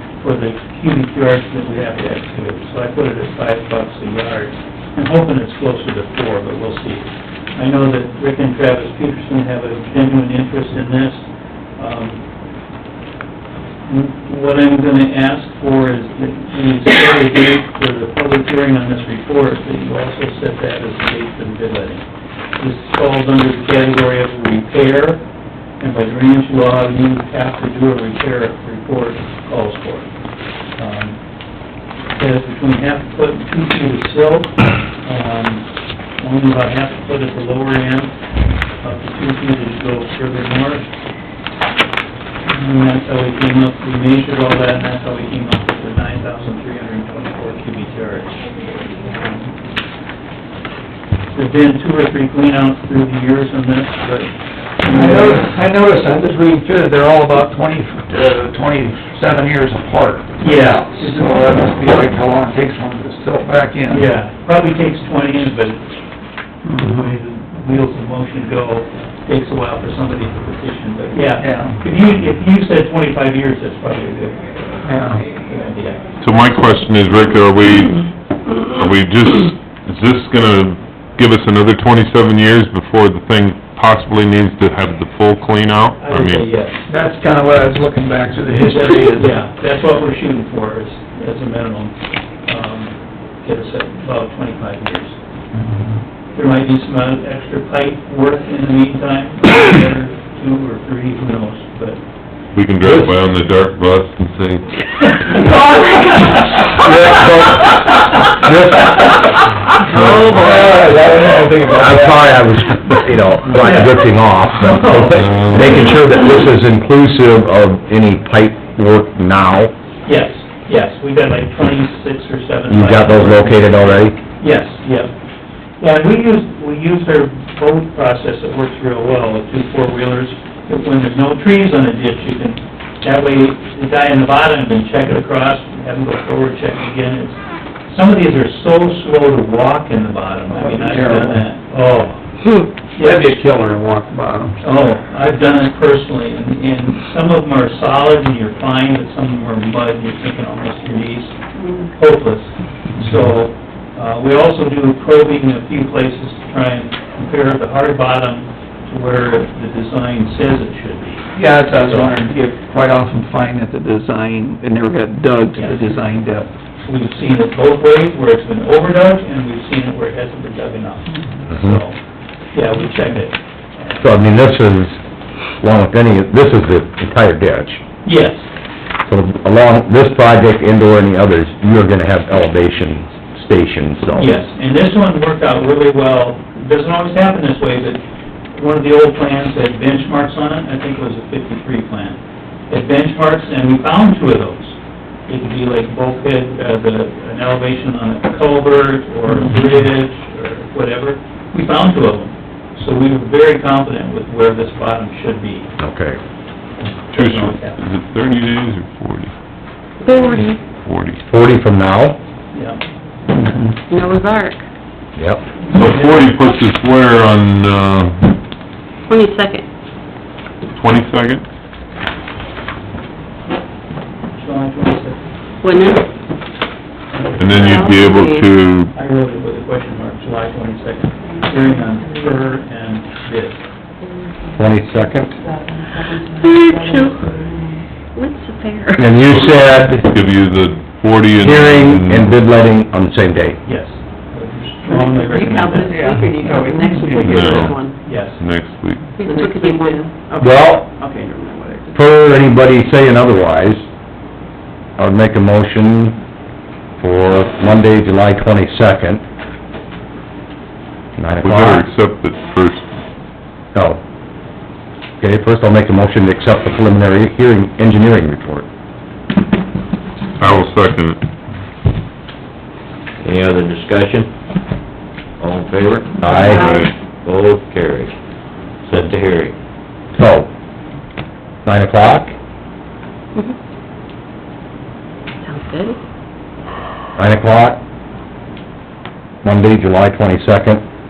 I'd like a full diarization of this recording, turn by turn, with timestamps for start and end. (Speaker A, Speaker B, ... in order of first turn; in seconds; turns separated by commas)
Speaker A: 0.2-11.2, Speaker A: 11.8-12.2, Speaker A: 13.8-22.1, Speaker A: 22.6-25.2, Speaker A: 25.8-30.1, Speaker A: 30.8-31.2, Speaker A: 32.1-35.7, Speaker A: 36.2-38.1, Speaker A: 38.8-40.9, Speaker A: 42.5-48.4, Speaker A: 49.0-49.5, Speaker A: 51.3-55.5, Speaker B: 54.9-64.1, Speaker A: 60.4-61.1, Speaker A: 63.9-65.9, Speaker B: 66.7-67.1, Speaker A: 66.7-76.0, Speaker B: 71.4-71.8, Speaker B: 74.8-75.2, Speaker C: 76.2-78.1, Speaker C: 78.6-86.5, Speaker A: 86.0-86.8, Speaker B: 86.9-89.3, Speaker A: 88.5-95.2, Speaker A: 96.3-102.0, Speaker C: 102.5-104.7, Speaker D: 102.8-103.1, Speaker A: 105.2-106.3, Speaker D: 106.7-107.8, Speaker D: 108.3-109.0, Speaker B: 109.8-112.3, Speaker C: 109.9-110.3, Speaker D: 110.3-110.8, Speaker D: 111.7-119.7, Speaker A: 113.6-115.8, Speaker C: 115.2-115.8, Speaker A: 120.0-125.1, Speaker D: 122.7-124.2, Speaker A: 125.8-142.2, Speaker B: 140.5-141.4, Speaker A: 142.9-143.3, Speaker B: 143.0-144.6, Speaker A: 144.6-151.3, Speaker A: 151.9-162.2, Speaker B: 161.3-166.5, Speaker A: 165.6-165.9, Speaker A: 166.8-172.0, Speaker D: 171.5-171.8, Speaker A: 172.5-174.0, Speaker D: 174.0-175.0, Speaker D: 175.6-177.8, Speaker A: 178.0-178.5, Speaker D: 179.1-184.3, Speaker A: 184.1-188.0, Speaker A: 188.5-192.2, Speaker A: 192.7-194.8, Speaker A: 195.3-205.7, Speaker D: 205.8-206.2, Speaker A: 207.1-207.8, Speaker C: 207.1-209.3, Speaker E: 210.0-210.6, Speaker C: 210.8-211.2, Speaker D: 211.3-212.2, Speaker A: 212.5-212.8, Speaker E: 213.9-214.6, Speaker D: 215.2-215.4, Speaker C: 215.7-218.3, Speaker A: 215.7-216.3, Speaker E: 219.1-219.7, Speaker C: 220.7-221.4, Speaker A: 224.3-226.0, Speaker E: 225.6-226.1, Speaker A: 227.1-227.9, Speaker C: 227.4-228.9, Speaker E: 227.4-228.5, Speaker A: 228.9-233.6, Speaker F: 231.7-232.2, Speaker D: 234.5-235.4, Speaker F: 235.1-237.8, Speaker E: 236.4-239.1, Speaker D: 239.0-240.1, Speaker C: 240.0-242.3, Speaker D: 241.4-243.6, Speaker A: 243.6-246.3, Speaker F: 244.9-247.9, Speaker E: 246.0-246.7, Speaker C: 247.0-249.2, Speaker A: 247.2-248.4, Speaker E: 247.5-247.9, Speaker E: 249.2-250.1, Speaker F: 249.2-251.9, Speaker D: 250.4-250.9, Speaker D: 251.9-253.8, Speaker D: 255.0-256.2, Speaker D: 257.0-259.2, Speaker D: 261.2-261.8, Speaker C: 261.4-262.9, Speaker D: 263.7-264.0, Speaker D: 265.2-268.6, Speaker C: 270.4-271.2, Speaker G: 273.2-274.3, Speaker G: 275.4-278.1, Speaker D: 276.2-276.6, Speaker E: 276.3-276.6, Speaker C: 276.5-276.9, Speaker G: 278.8-279.6, Speaker D: 280.1-280.5, Speaker D: 281.6-282.3, Speaker E: 285.4-286.0, Speaker D: 287.1-287.8, Speaker D: 289.4-290.8